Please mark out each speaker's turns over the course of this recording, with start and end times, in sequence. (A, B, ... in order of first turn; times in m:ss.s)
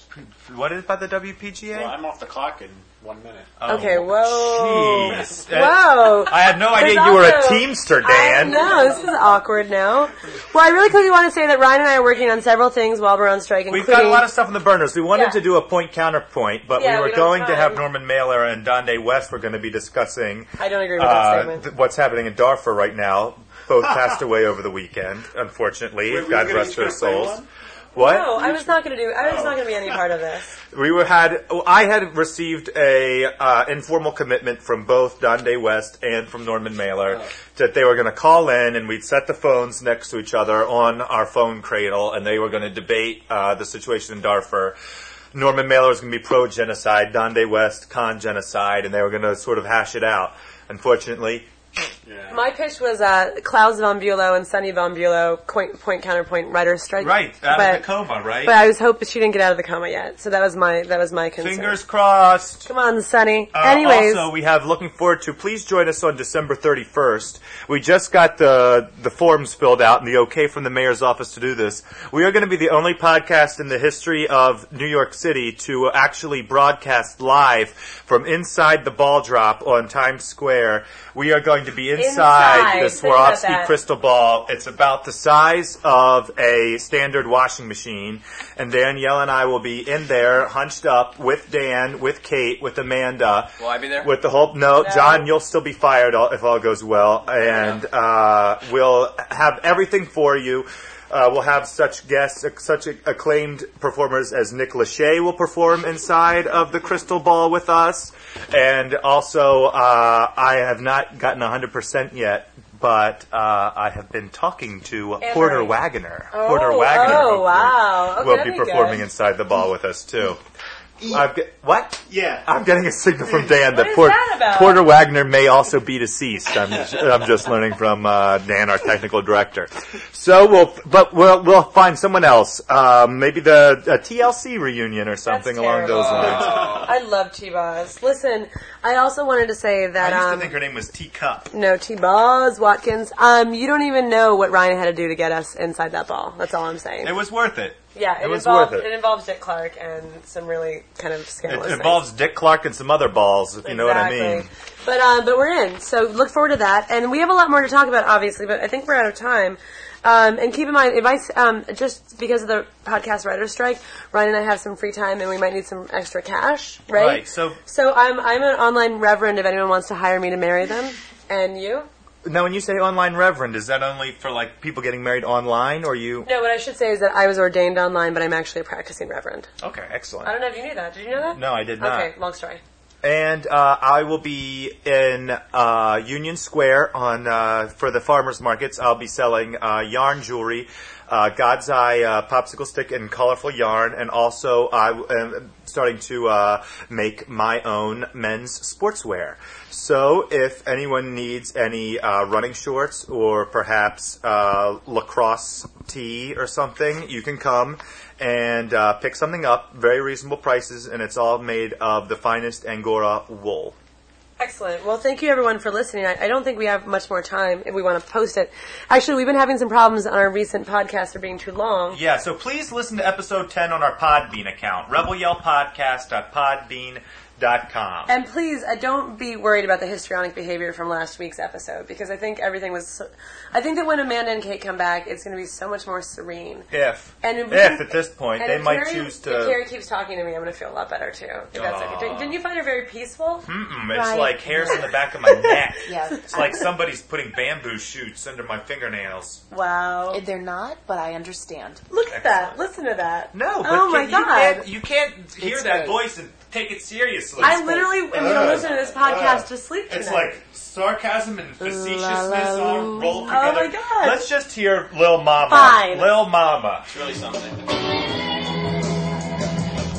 0:00.2-0:02.0 A
0:01.7-0:03.7 B
0:03.6-0:08.7 A
0:03.7-0:14.3 C
0:05.0-0:05.5 B
0:08.7-0:09.0 B
0:13.7-0:27.4 A
0:15.1-0:15.4 C
0:16.8-0:17.8 C
0:20.6-0:21.6 C
0:26.0-0:27.3 B
0:26.7-0:27.4 D
0:28.0-0:28.7 A
0:28.0-0:30.5 C
0:30.7-0:44.8 A
0:45.3-0:51.5 A
0:52.1-0:52.4 B
0:52.3-0:57.9 C
0:57.0-0:58.6 A
0:58.4-1:01.8 C
1:01.4-1:02.7 A
1:02.6-1:04.3 C
1:03.5-2:00.4 A
1:22.0-1:23.7 C
1:33.6-1:34.1 D
1:34.8-1:35.3 C
1:37.4-1:37.8 D
1:55.2-1:55.8 C
1:56.3-1:59.1 C
2:01.0-2:16.8 A
2:03.3-2:04.9 C
2:15.2-2:20.6 C
2:15.9-2:16.9 D
2:20.0-2:21.5 A
2:21.5-2:27.1 C
2:27.0-2:28.9 A
2:27.9-2:32.1 C
2:31.4-2:34.5 A
2:33.6-2:51.9 C
2:46.9-2:47.6 A
2:52.2-2:56.3 A
2:56.2-2:59.5 C
2:59.6-3:00.3 A
3:00.2-3:02.6 C
3:01.3-3:02.1 A
3:03.0-3:33.8 A
3:34.4-3:42.0 C
3:41.9-3:48.1 A
3:48.1-3:56.7 C
3:56.7-3:59.6 A
3:57.2-4:03.5 C
4:01.5-4:02.4 A
4:03.5-4:09.4 A
4:03.9-4:04.9 E
4:04.6-4:05.6 C
4:05.9-4:06.4 E
4:06.1-4:06.6 C
4:09.5-4:10.2 C
4:10.1-4:11.9 E
4:11.9-4:14.7 C
4:12.1-4:12.5 A
4:13.3-4:26.9 A
4:15.4-4:15.8 C
4:15.6-4:16.0 E
4:17.4-4:20.4 C
4:18.2-4:19.0 D
4:21.6-4:23.2 E
4:23.2-4:24.2 C
4:25.4-4:26.3 C
4:26.9-4:27.7 D